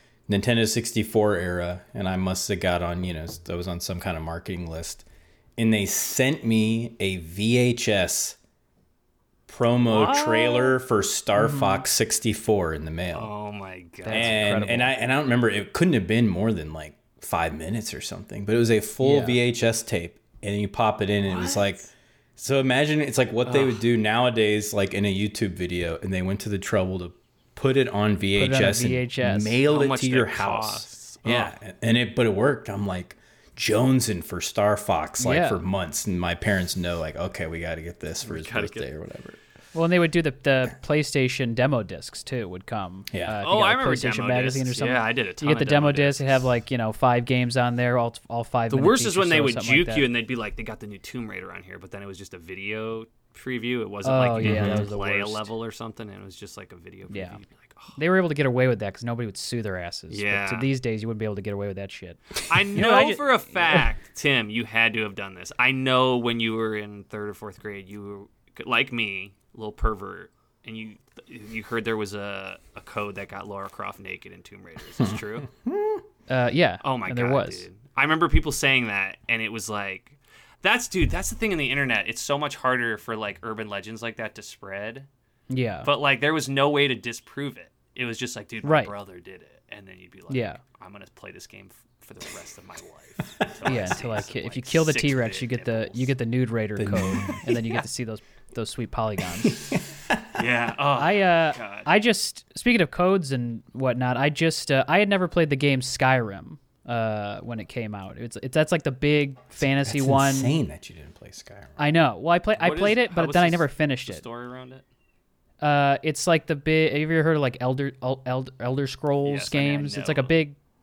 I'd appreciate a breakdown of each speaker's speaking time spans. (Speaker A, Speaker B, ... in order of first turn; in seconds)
Speaker A: 0.3-5.0, 5.6-8.4, 9.5-13.3, 14.1-39.4, 43.1-43.4, 54.4-54.9, 75.0-76.0, 96.8-97.4, 99.4-100.4, 109.6-111.8
Speaker B: 9.9-10.7, 13.1-14.4, 29.7-31.5, 38.2-38.9, 43.4-46.4, 48.7-57.9, 60.1-60.7, 62.4-75.5, 76.8-85.1, 85.8-96.1, 100.3-101.9, 112.6-114.8, 119.2-120.3
Speaker C: 11.3-11.8, 14.0-14.9, 19.0-19.4, 28.4-29.6, 35.2-35.6, 39.7-50.0, 54.0-55.5, 57.1-57.4, 58.0-63.9, 76.3-77.6, 85.5-85.9, 88.6-88.9, 90.3-90.6, 93.6-99.7, 101.0-110.5, 111.8-114.2, 115.6-120.6